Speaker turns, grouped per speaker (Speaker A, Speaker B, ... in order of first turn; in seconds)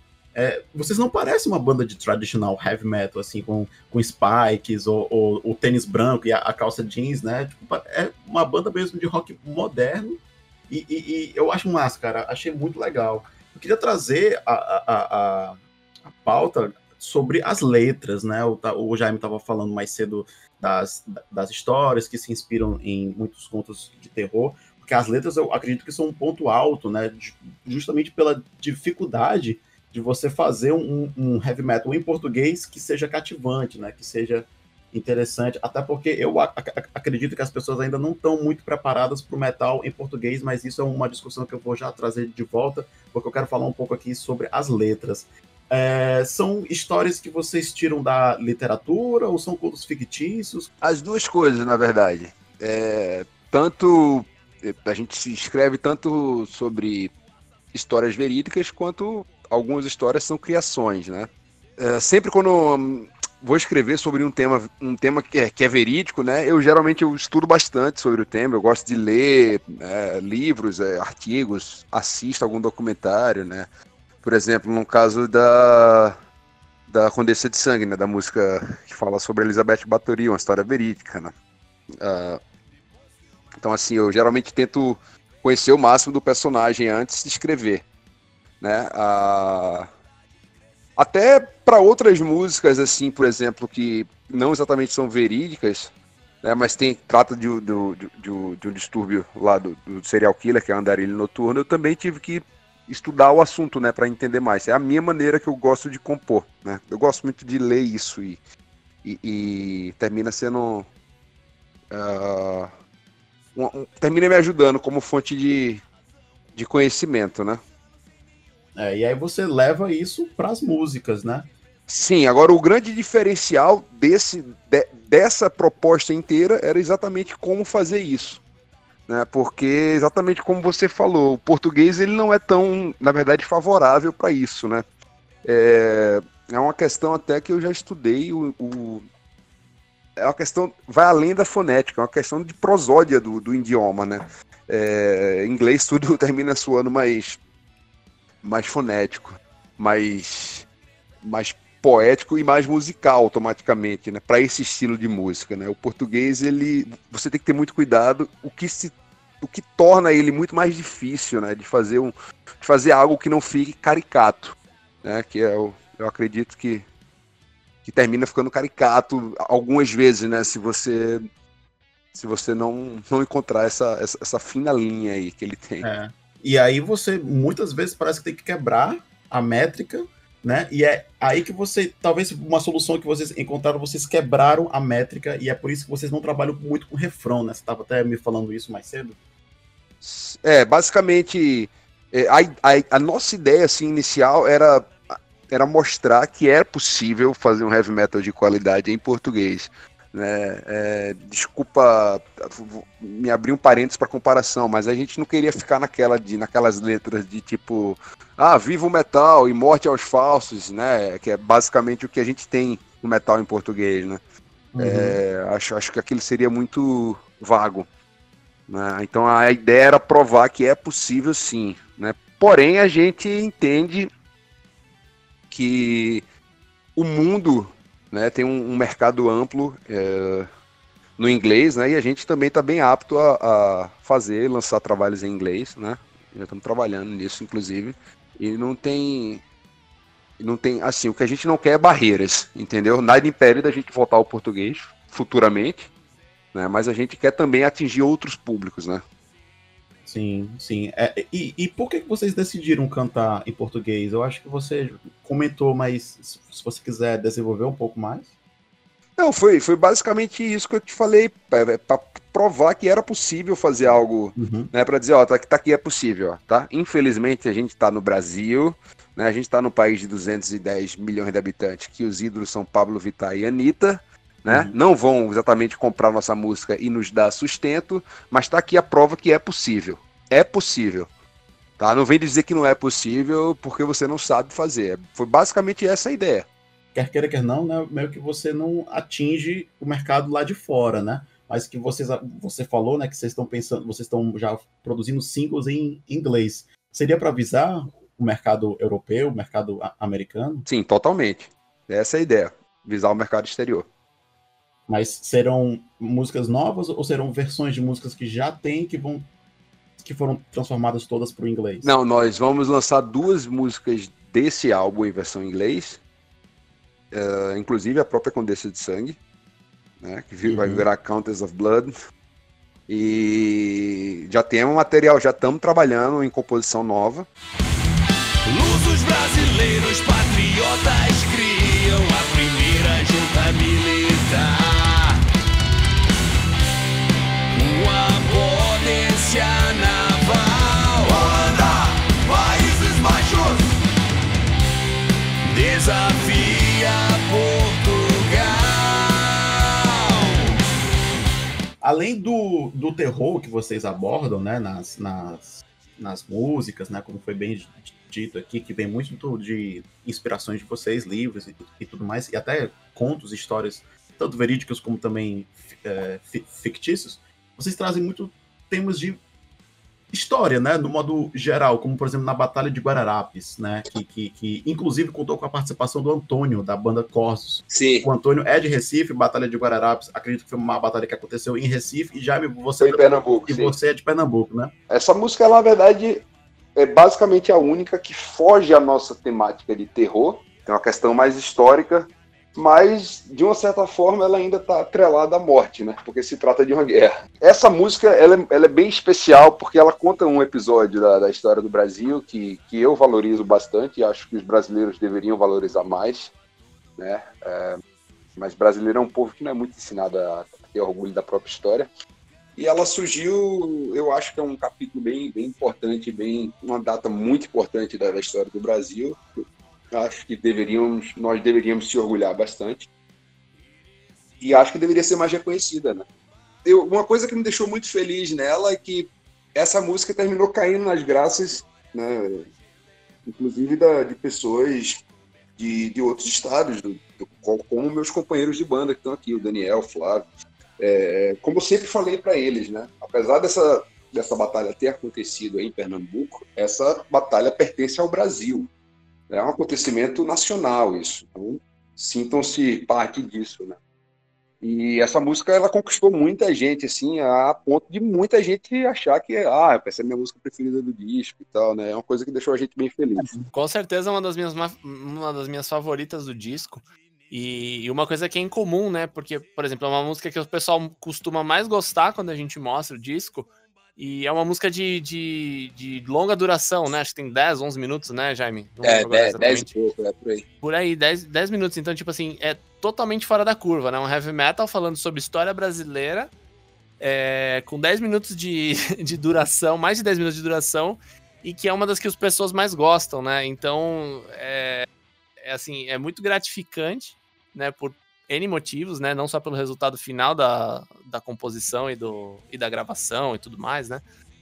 Speaker A: 0.3-50.7, 118.8-121.5, 175.8-189.2, 214.8-215.2, 250.1-258.3, 264.4-264.7, 274.5-274.7, 286.9-300.7, 304.9-309.3, 310.0-311.9, 320.4-320.9, 351.8-369.2, 370.1-384.7
Speaker B: 50.8-57.1, 57.7-73.7, 74.2-76.2, 76.9-81.3, 82.0-82.4, 83.6-87.9, 88.6-89.9, 91.0-95.9, 96.4-108.4, 109.0-110.9, 111.9-112.7, 113.5-115.8, 116.5-117.6, 121.9-128.4, 129.1-134.8, 135.4-139.1, 140.2-147.4, 148.4-150.7, 151.2-166.9, 167.8-171.2, 172.1-175.9, 190.0-214.2, 214.8-217.9, 218.7-224.1, 225.5-226.2, 227.0-230.5, 231.2-239.4, 240.4-245.9, 246.5-249.0, 259.2-281.1, 281.8-286.5, 300.7-303.9, 311.8-316.0, 317.1-319.2, 320.0-321.9, 322.9-327.3, 377.7-378.1, 382.8-383.8, 384.9-406.3, 407.0-407.8, 408.4-411.9, 412.6-422.9, 424.4-426.1, 426.6-432.5, 433.3-435.0, 435.6-440.2, 440.8-448.7, 449.3-453.8, 454.6-463.3, 478.8-480.4
Speaker C: 328.5-335.2, 337.5-343.8, 345.5-349.4
Speaker D: 463.5-479.7, 480.6-486.3, 487.0-494.9, 495.4-504.0